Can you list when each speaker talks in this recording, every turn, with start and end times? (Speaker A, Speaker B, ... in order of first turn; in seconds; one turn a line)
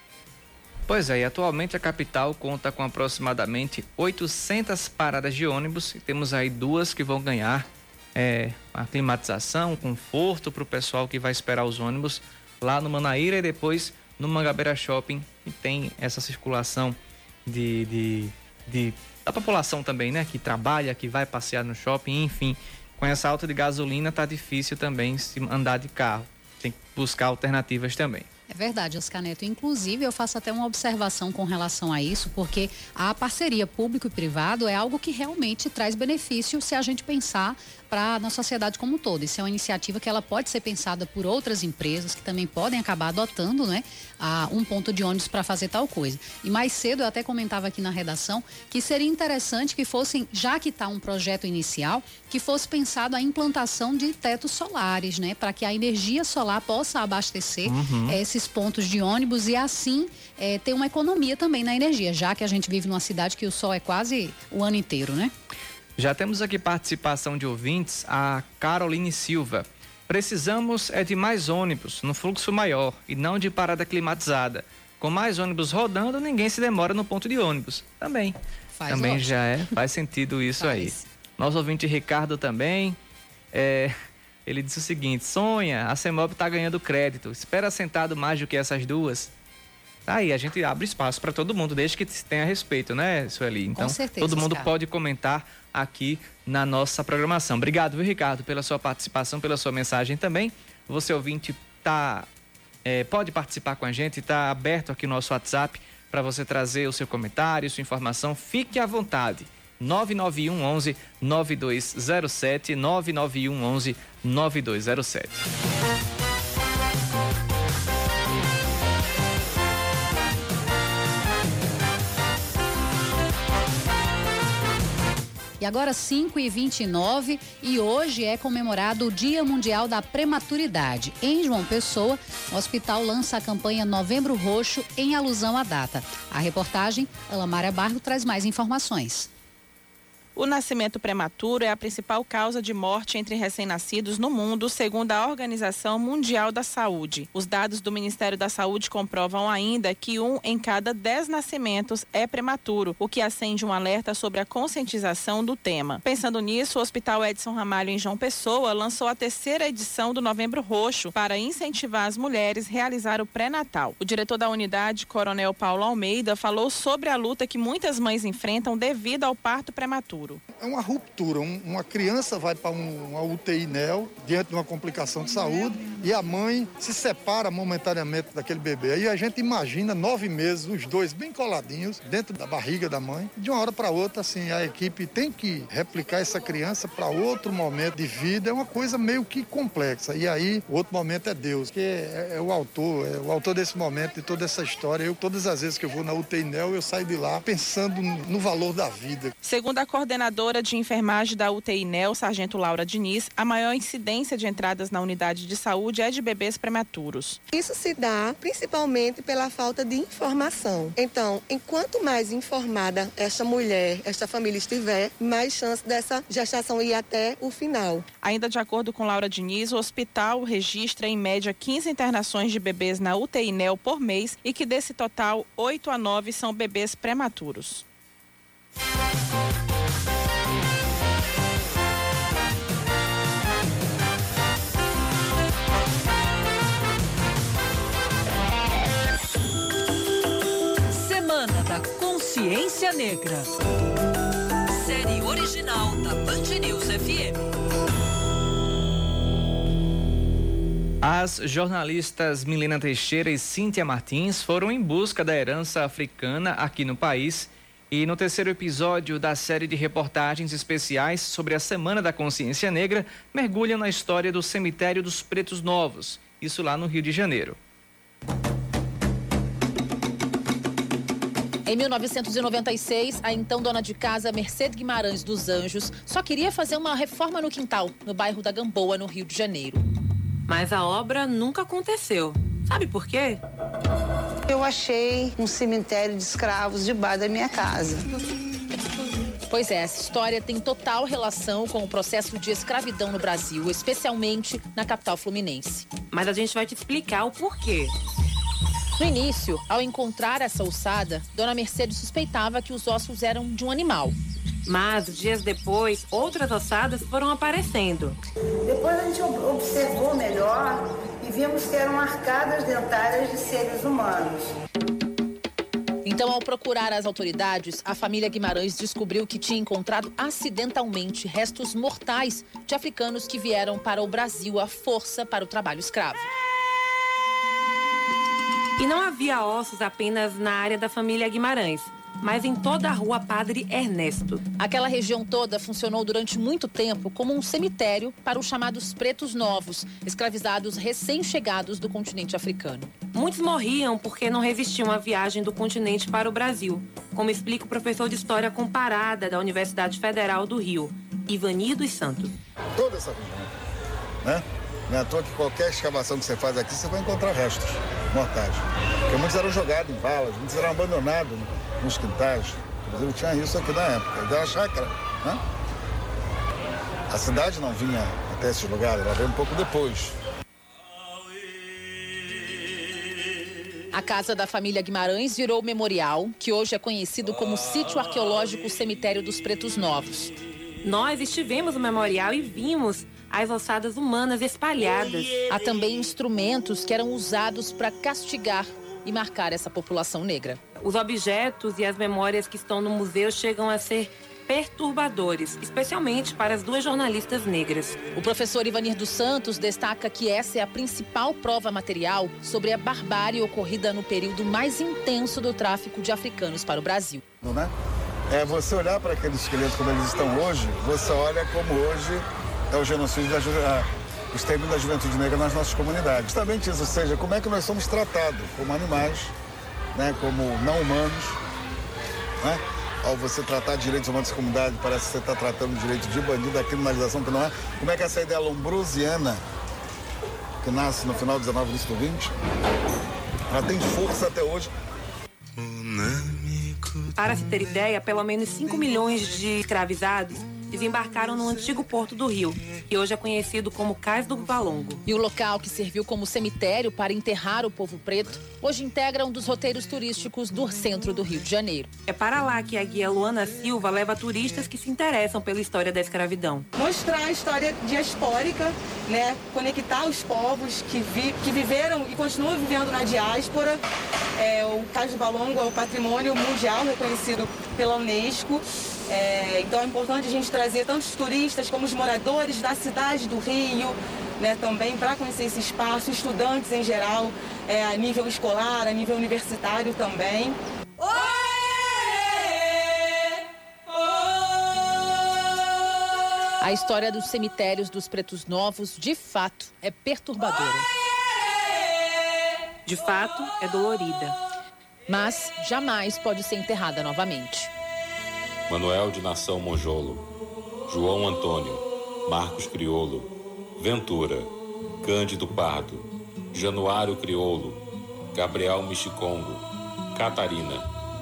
Speaker A: 0.9-28.3
Speaker B: 28.5-65.3
Speaker A: 57.6-58.2
Speaker A: 66.0-78.3
Speaker B: 78.8-79.4
Speaker A: 78.9-83.0
Speaker B: 80.6-81.0
Speaker A: 83.5-83.9
Speaker A: 84.5-89.3
Speaker A: 90.1-102.3
Speaker B: 93.8-94.7
Speaker A: 102.8-115.5
Speaker B: 125.6-139.3
Speaker C: 140.4-170.4
Speaker D: 170.5-199.3
Speaker C: 199.4-207.4
Speaker E: 207.5-218.1
Speaker C: 218.2-227.8
Speaker F: 240.9-243.6
Speaker F: 244.7-247.4
Speaker A: 251.0-267.6
Speaker G: 271.7-279.8
Speaker H: 280.5-283.4
Speaker I: 284.5-288.1
Speaker G: 289.5-295.9
Speaker H: 296.1-297.9
Speaker G: 299.0-304.2
Speaker H: 304.7-308.2
Speaker I: 308.6-314.5
Speaker G: 316.1-326.3
Speaker H: 328.8-334.4
Speaker G: 334.6-342.9
Speaker H: 343.1-352.3
Speaker J: 352.8-353.6
Speaker J: 354.2-365.4
Speaker J: 367.1-370.1
Speaker G: 373.9-380.3
Speaker H: 380.8-385.4
Speaker G: 385.5-390.6
Speaker H: 390.8-398.0
Speaker G: 398.1-407.2
Speaker J: 407.4-407.7
Speaker J: 408.3-419.3
Speaker J: 419.9-421.4
Speaker J: 422.4-429.4
Speaker J: 430.6-432.3
Speaker J: 433.5-434.7
Speaker H: 437.1-445.0
Speaker G: 445.1-451.9
Speaker H: 452.1-456.7
Speaker K: 456.8-463.8
Speaker K: 464.4-480.6
Speaker G: 486.6-490.9
Speaker H: 492.9-494.4
Speaker G: 495.1-497.7
Speaker L: 498.7-500.3
Speaker L: 500.9-510.9